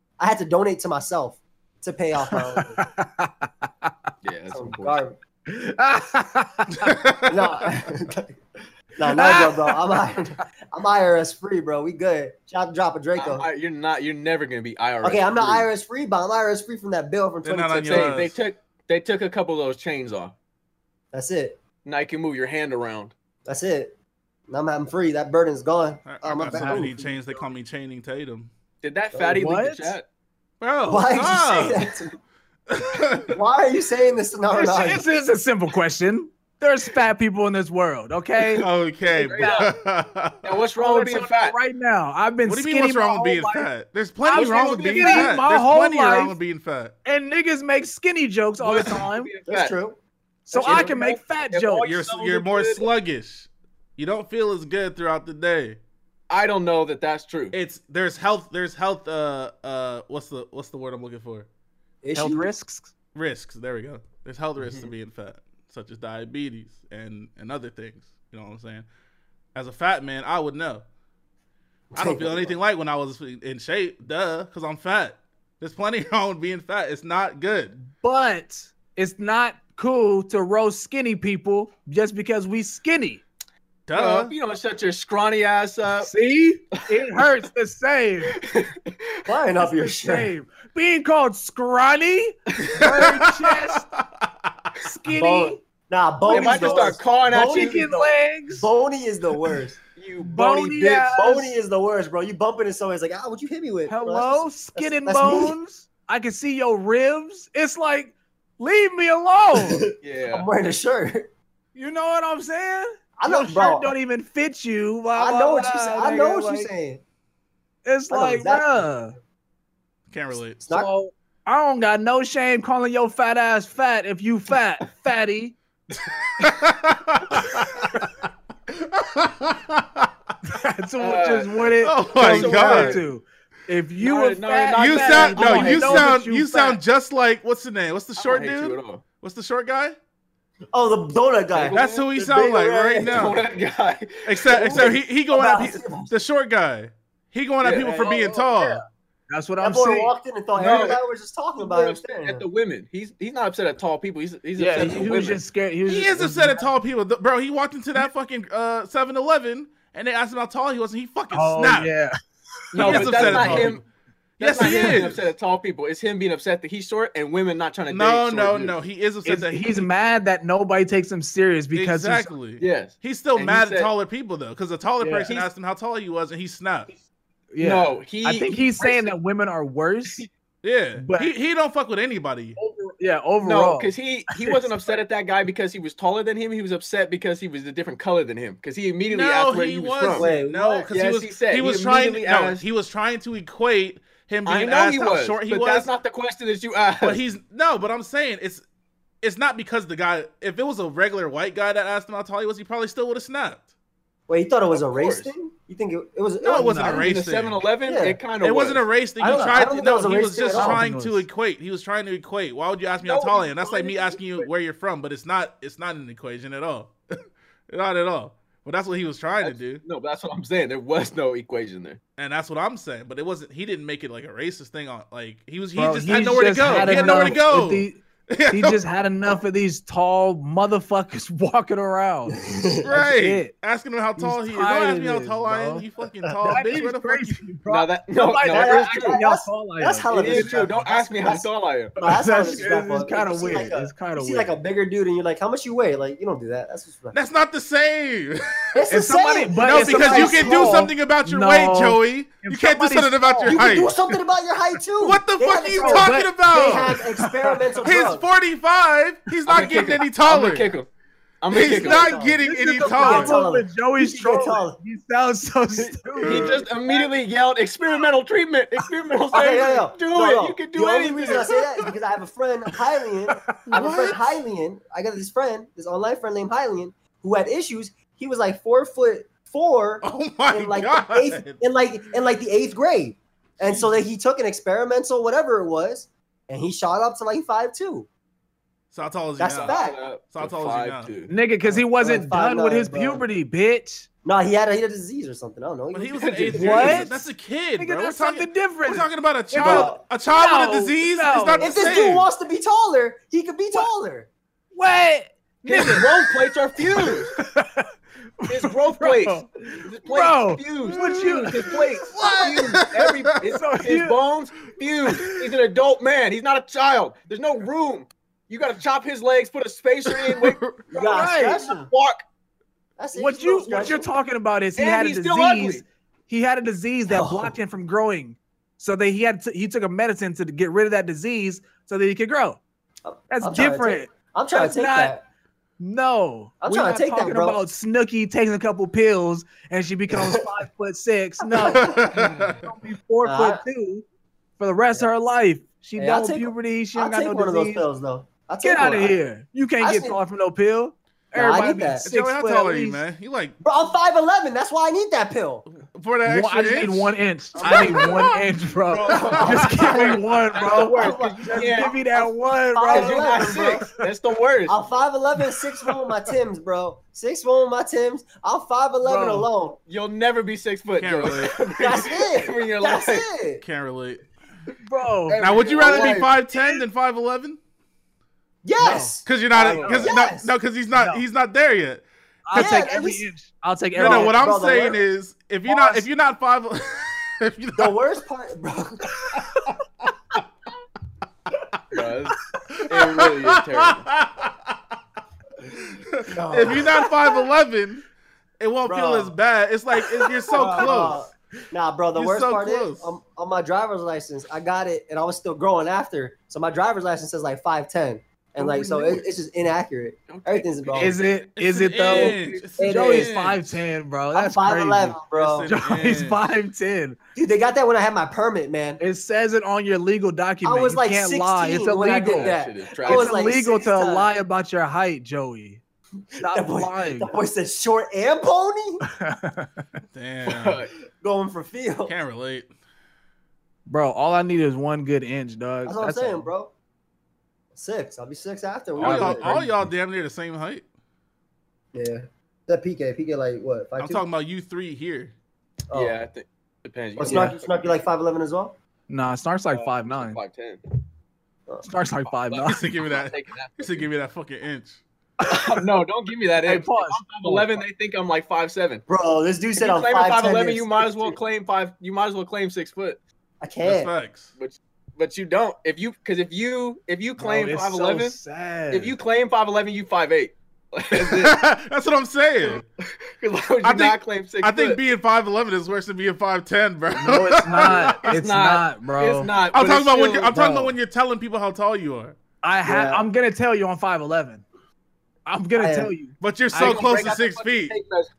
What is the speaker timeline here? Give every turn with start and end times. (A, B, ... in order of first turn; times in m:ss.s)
0:00.2-0:02.8 A
0:02.3-0:03.9 B
0:04.2-0:05.0 C
0:04.5-0:05.2 A
0:05.5-0:07.0 B
0:06.8-0:07.7 D
0:07.3-0:08.4 A
0:09.0-0:13.5 A
0:09.1-0:09.8 B
0:13.2-0:15.7 C
0:15.0-0:18.2 A
0:17.4-0:18.4 D
0:17.8-0:20.4 C
0:21.1-0:21.6 A
0:21.8-0:23.1 C
0:23.4-0:24.0 A
0:24.5-0:27.4 A
0:26.1-0:28.5 D
0:26.5-0:26.9 B
0:28.8-0:30.1 C
0:29.1-0:29.4 A
0:29.3-0:30.0 B
0:30.6-0:31.9 D
0:30.9-0:32.2 A
0:32.7-0:33.3 D
0:33.3-0:35.1 A
0:34.5-0:39.7 B
0:38.6-0:39.7 C
0:38.6-0:40.5 D
0:40.4-0:41.6 C
0:40.8-0:43.7 B
0:42.4-0:46.9 D
0:44.2-0:45.4 C
0:44.3-0:46.4 B
0:47.0-0:49.3 B
0:48.6-0:49.8 C
0:49.5-0:50.0 A
0:50.5-0:52.0 B
0:50.5-0:52.9 C
0:50.6-0:50.9 A
0:51.8-0:55.8 D
0:56.3-0:57.6 C
0:57.5-1:01.5 D
1:02.0-1:02.5 A
1:02.2-1:02.9 B
1:03.2-1:08.9 D
1:04.6-1:04.9 C
1:09.6-1:10.8 D
1:11.9-1:12.6 A
1:12.0-1:17.8 D
1:18.0-1:23.2 B
1:23.9-1:24.3 D
1:23.9-1:26.1 C
1:26.0-1:28.4 B
1:28.3-1:29.0 C
1:29.3-1:30.3 A
1:29.6-1:33.9 B
1:32.8-1:33.3 A
1:33.0-1:34.0 D
1:34.8-1:35.6 B
1:35.1-1:39.8 A
1:36.2-1:38.7 B
1:36.3-1:37.9 C
1:40.0-1:41.1 C
1:40.2-1:41.6 B
1:41.0-1:45.6 A
1:43.9-1:49.8 B
1:49.5-1:51.3 A
1:50.0-1:50.5 C
1:51.8-1:56.7 B
1:53.2-1:53.9 A
1:55.2-1:57.0 A
1:57.8-1:59.1 B
1:58.1-1:58.9 A
2:00.1-2:00.6 D
2:00.4-2:00.9 A
2:00.7-2:05.6 B
2:06.4-2:08.0 D
2:08.7-2:10.1 D
2:10.4-2:16.8 B
2:11.0-2:11.7 C
2:11.8-2:13.0 D
2:12.2-2:13.0 C
2:14.0-2:16.1 C
2:14.8-2:20.0 D
2:18.2-2:19.0 C
2:20.7-2:23.3 A
2:21.5-2:22.1 C
2:21.7-2:23.4 D
2:23.0-2:24.9 C
2:24.3-2:28.8 D
2:24.8-2:26.1 A
2:27.6-2:28.7 C
2:29.3-2:30.1 B
2:29.6-2:32.4 A
2:30.6-2:31.0 C
2:31.6-2:35.4 C
2:34.6-2:36.7 B
2:35.9-2:41.9 D
2:41.3-2:42.2 B
2:42.7-2:43.8 B
2:42.7-2:43.8 C
2:42.8-2:43.8 D
2:44.4-2:45.3 D
2:44.4-2:48.8 C
2:44.6-2:45.0 B
2:47.9-2:49.9 D
2:49.2-2:52.3 B
2:51.7-2:56.9 D
2:52.6-2:53.9 C
2:55.0-2:55.5 B
2:57.5-3:00.2 B
2:57.6-2:59.1 C
3:00.6-3:02.6 D
3:01.0-3:01.3 B
3:02.6-3:04.6 B
3:03.4-3:10.3 C
3:09.1-3:15.9 D
3:10.1-3:10.9 A
3:10.9-3:12.6 C
3:14.4-3:17.2 C
3:17.0-3:18.6 D
3:19.2-3:23.6 D
3:24.3-3:27.1 A
3:24.7-3:25.3 C
3:26.4-3:27.6 D
3:26.5-3:27.0 B
3:26.8-3:28.8 C
3:27.9-3:28.2 A
3:28.4-3:36.9 D
3:29.2-3:30.8 A
3:30.5-3:31.3 B
3:33.0-3:34.5 C
3:37.7-3:39.8 D
3:39.4-3:42.0 C
3:42.2-3:48.8 D
3:45.8-3:53.5 B
3:52.4-3:52.8 A
3:52.8-3:57.5 D
3:54.2-3:55.9 B
3:56.4-4:01.5 B
3:57.7-3:59.2 C
3:58.5-4:01.4 A
4:00.1-4:02.0 C
4:02.0-4:07.2 A
4:02.0-4:04.6 B
4:07.1-4:08.9 D
4:08.7-4:10.9 A
4:08.9-4:13.7 B
4:09.6-4:14.1 D
4:13.5-4:18.2 A
4:15.0-4:17.0 D
4:15.7-4:16.4 B
4:17.0-4:17.9 B
4:17.8-4:20.7 D
4:19.3-4:19.6 B
4:19.5-4:20.9 C
4:21.4-4:22.2 C
4:21.5-4:23.4 D
4:21.5-4:24.8 A
4:22.4-4:26.6 B
4:25.8-4:31.6 C
4:29.3-4:48.1 A
4:33.3-4:33.8 B
4:33.7-4:34.3 D
4:40.0-4:41.6 D
4:48.9-4:49.8 D
4:49.4-4:50.0 A
4:49.6-4:51.3 C
4:50.3-4:51.1 D
4:51.3-4:54.1 B
4:52.0-4:53.2 A
4:54.2-4:57.0 A
4:55.9-5:02.3 D
4:56.2-4:57.1 C
4:56.5-5:01.9 B
4:59.6-5:00.0 A
5:01.6-5:04.3 A
5:04.8-5:06.3 B
5:05.6-5:07.4 C
5:06.8-5:12.0 B
5:08.5-5:22.2 C
5:10.9-5:13.5 D
5:12.1-5:12.8 A
5:13.4-5:14.2 B
5:20.1-5:20.8 D
5:20.9-5:21.9 A
5:21.0-5:21.6 B
5:23.0-5:24.1 A
5:23.2-5:32.6 B
5:24.8-5:25.8 C
5:27.1-5:27.5 A
5:33.1-5:35.2 A
5:33.3-5:35.2 B
5:35.8-5:44.0 B
5:36.6-5:37.6 A
5:41.5-5:42.5 A
5:41.7-5:42.6 D
5:43.2-5:43.6 A
5:44.6-5:47.8 B
5:46.0-5:49.2 A
5:48.6-5:53.0 B
5:49.8-5:50.2 A
5:51.3-5:52.1 A
5:52.0-5:53.6 D
5:53.6-5:55.7 A
5:55.9-5:58.4 D
5:56.2-6:04.0 B
5:57.6-5:58.3 A
5:58.9-6:02.0 C
5:59.1-6:03.9 A
5:59.3-5:59.7 D
6:02.9-6:04.8 C
6:04.7-6:09.8 A
6:09.0-6:09.5 B
6:09.9-6:13.3 C
6:11.0-6:11.6 D
6:11.8-6:13.6 A
6:13.6-6:14.2 D
6:14.8-6:15.4 B
6:15.3-6:16.3 C
6:15.4-6:17.6 D
6:15.8-6:16.8 A
6:18.6-6:20.5 A
6:18.8-6:19.2 B
6:19.2-6:22.9 D
6:19.6-6:20.1 C
6:20.9-6:21.2 B
6:22.5-6:24.4 B
6:22.5-6:23.2 A
6:24.0-6:25.0 A
6:24.0-6:28.0 D
6:25.7-6:26.0 A
6:27.8-6:29.1 A
6:31.9-6:32.4 C
6:32.7-6:34.8 D
6:32.9-6:34.1 C
6:35.7-6:38.0 D
6:36.3-6:37.0 A
6:38.6-6:41.3 D
6:38.8-6:39.4 A
6:40.5-6:51.2 A
6:40.6-6:40.9 B
6:42.2-6:43.1 D
6:48.6-6:49.2 D
6:50.3-6:51.3 C
6:51.0-6:57.2 B
6:51.6-6:53.3 D
6:52.0-6:53.7 C
6:52.8-6:53.3 A
6:54.3-6:55.7 A
6:55.3-6:56.4 D
6:57.4-6:59.0 A
6:59.0-7:05.8 B
7:00.6-7:04.3 A
7:02.3-7:03.6 C
7:06.3-7:09.0 A
7:06.4-7:07.3 B
7:09.2-7:09.8 B
7:10.1-7:10.8 D
7:10.5-7:10.9 C
7:11.2-7:12.1 A
7:12.1-7:12.7 D
7:13.9-7:16.5 B
7:15.9-7:16.7 A
7:17.8-7:19.5 A
7:19.0-7:20.9 D
7:19.0-7:19.9 B
7:21.9-7:24.2 A
7:24.0-7:25.3 D
7:25.9-7:26.2 A
7:25.9-7:28.0 C
7:27.2-7:28.8 A
7:27.2-7:27.6 B
7:29.1-7:30.4 B
7:29.7-7:30.8 C
7:31.8-7:32.9 B
7:32.3-7:34.1 C
7:32.6-7:35.0 D
7:35.4-7:35.8 B
7:35.4-7:39.0 C
7:36.6-7:37.8 B
7:39.1-7:41.4 A
7:39.8-7:43.2 C
7:43.6-7:44.1 A
7:43.8-7:44.5 D
7:44.6-7:48.4 C
7:47.4-7:49.2 B
7:48.9-7:51.6 C
7:51.1-7:52.8 D
7:52.7-7:55.0 C
7:53.8-7:58.4 D
7:57.2-7:59.5 B
7:57.7-8:00.8 C
7:59.7-8:02.4 D
8:02.6-8:04.6 B
8:02.8-8:03.2 A
8:05.5-8:07.4 B
8:05.8-8:06.1 A
8:06.4-8:08.0 D
8:06.7-8:08.3 C